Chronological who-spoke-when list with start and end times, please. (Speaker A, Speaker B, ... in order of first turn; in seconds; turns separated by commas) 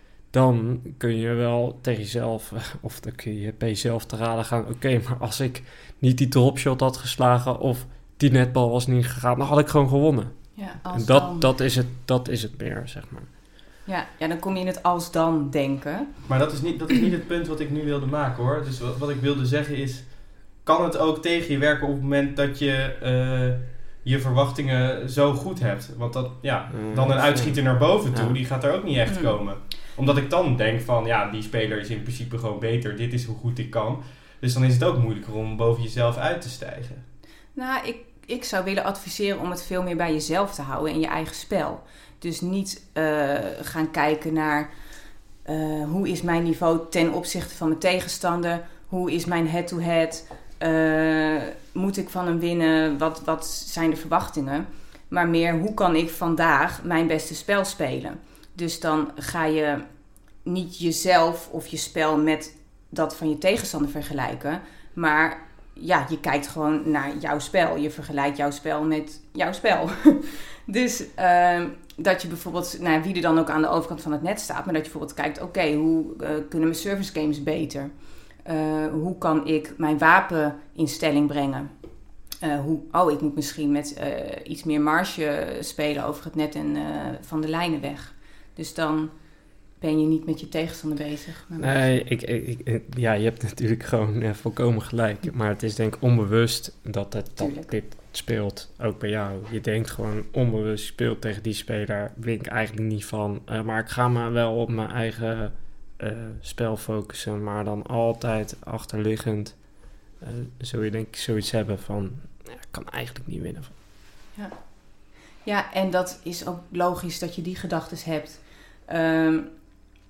Speaker A: 0.3-13.3, Speaker B: 10.5-11.5, Speaker B: 13.8-16.4, Speaker C: 16.3-37.0, Speaker A: 26.7-28.4, Speaker B: 29.1-29.4, Speaker B: 37.5-44.7, Speaker B: 45.4-59.8, Speaker B: 60.4-77.9, Speaker B: 78.4-81.7, Speaker B: 82.4-89.2, Speaker B: 89.7-91.9, Speaker A: 91.6-113.8, Speaker B: 97.4-97.7, Speaker B: 114.3-114.7, Speaker B: 115.4-119.5